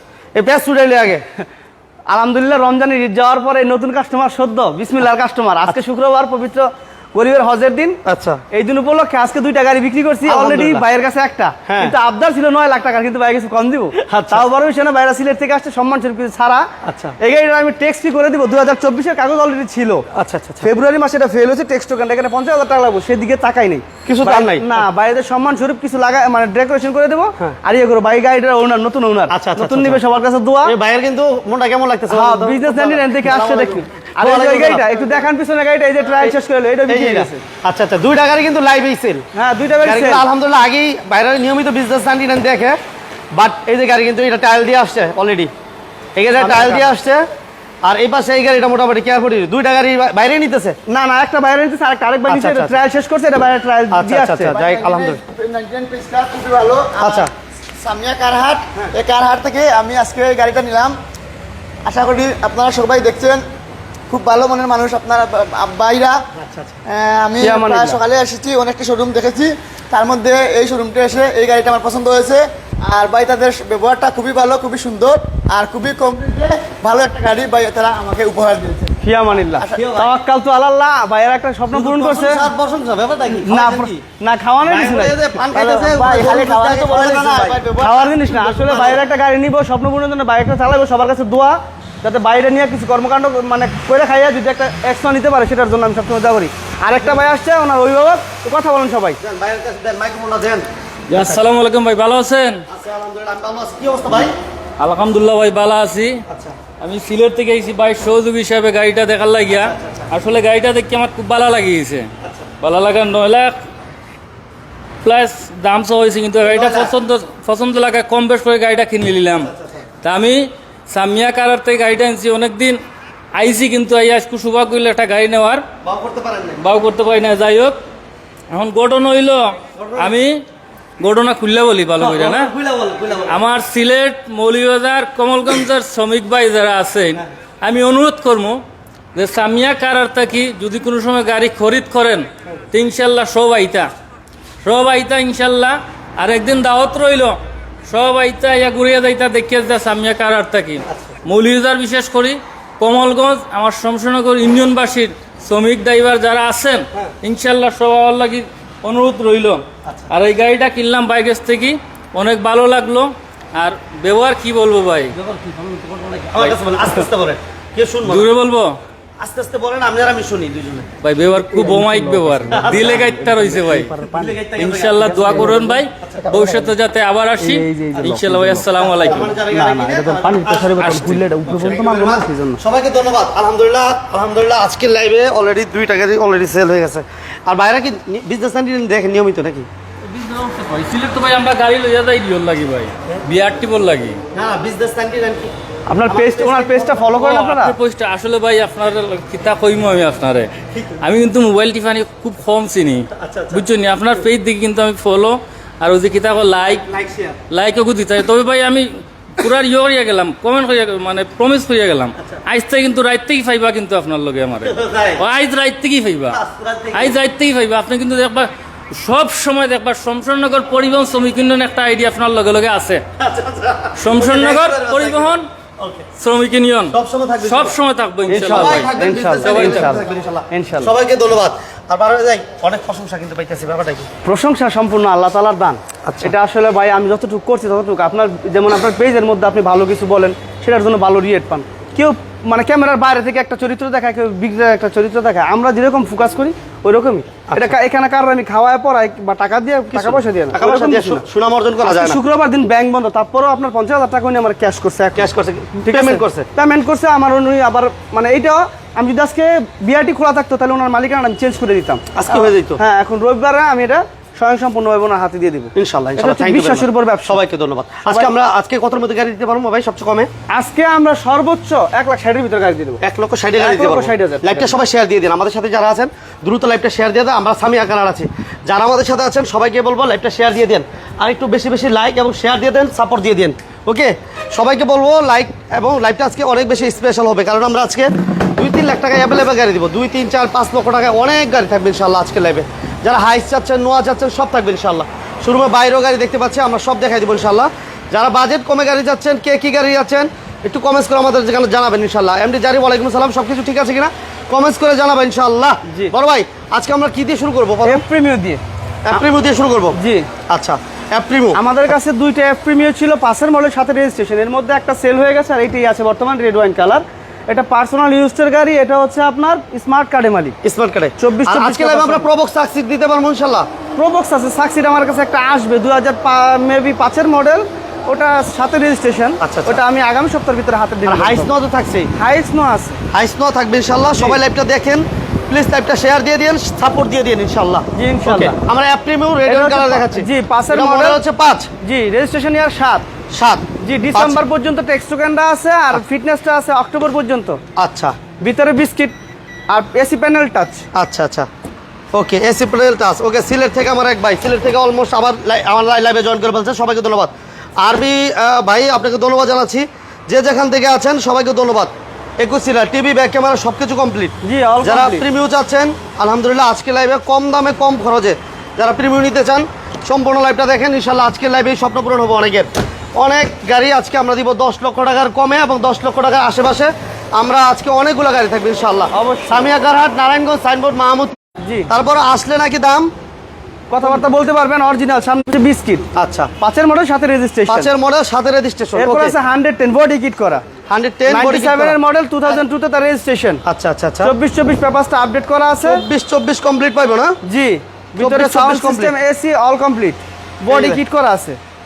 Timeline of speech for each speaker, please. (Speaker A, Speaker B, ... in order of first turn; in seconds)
Speaker A: 0.3-1.2, 8.1-8.4, 10.2-10.8, 11.7-11.9, 14.0-14.4, 16.8-17.1, 20.1-20.7, 24.0-24.9, 29.3-30.0, 30.6-35.2, 36.9-39.2, 39.8-42.8, 43.3-45.5, 46.1-47.2, 47.8-50.8, 52.3-52.8, 53.9-55.2, 57.0-57.3, 66.3-66.8, 81.7-84.0, 84.6-87.7, 88.5-89.0, 99.2-101.4, 102.7-104.3, 106.3-106.6, 109.5-110.1, 112.2-112.5, 116.4-116.9, 119.4-119.8, 125.8-126.6, 129.8-130.1, 132.0-133.4, 150.9-151.2, 159.8-160.1, 165.1-168.3, 169.2-170.9, 172.5-173.1, 174.0-176.6, 178.7-189.7, 194.3-195.5, 196.1-197.1, 203.1-203.6, 206.9-207.4, 214.6-215.2, 216.3-217.2, 223.2-226.1, 226.9-227.7, 228.4-234.1, 236.0-236.3, 247.5-247.7, 249.9-252.2, 255.2-256.5, 262.1-262.8, 265.7-270.3, 273.0-308.0, 309.0-311.6, 320.6-323.7, 329.4-329.8, 331.1-332.1, 333.1-341.7, 343.3-344.4, 347.8-348.2, 350.9-351.5, 352.1-381.4, 381.9-383.1, 386.1-386.5, 387.7-389.4, 390.9-392.6, 393.6-394.3, 395.8-397.4, 398.1-399.1, 400.7-401.0
Speaker B: 2.1-8.0, 8.5-16.7, 17.2-20.1, 20.6-30.7, 32.1-37.4, 39.3-40.2, 46.4-46.9, 50.9-54.5, 67.4-68.0, 79.0-82.4, 83.5-86.1, 87.8-99.2, 171.5-174.4, 175.0-175.8, 177.4-178.7, 179.5-182.6, 195.9-197.8, 228.3-230.9, 234.2-251.2, 251.8-255.3, 255.8-267.4, 268.0-268.3, 270.5-273.0, 273.6-274.8, 305.9-306.1, 307.8-308.6, 309.9-310.3, 311.5-320.6, 321.2-322.3, 324.0-331.5, 332.1-333.0, 337.9-338.6, 339.4-341.2, 341.8-343.1, 343.8-347.6, 348.4-349.1, 349.7-350.9, 364.4-365.2, 379.1-379.6, 381.6-381.9, 383.9-386.0, 386.6-387.9, 388.9-390.6, 391.3-393.6, 394.2-396.0, 397.4-401.6
Speaker C: 54.5-61.0, 61.8-63.4, 64.1-66.2, 66.8-79.0, 79.6-80.1, 85.5-88.8
Speaker D: 101.1-102.6, 104.8-106.2, 106.8-113.6, 115.0-119.5, 120.0-122.8, 123.3-125.6, 126.6-127.8, 128.5-130.4, 131.0-132.5, 133.3-138.6, 139.1-143.9, 144.6-165.2, 168.1-168.8, 171.0-173.9, 174.5-179.3, 190.1-194.2, 197.2-206.9, 207.5-216.4, 216.9-223.0, 224.0-225.5, 226.2-229.9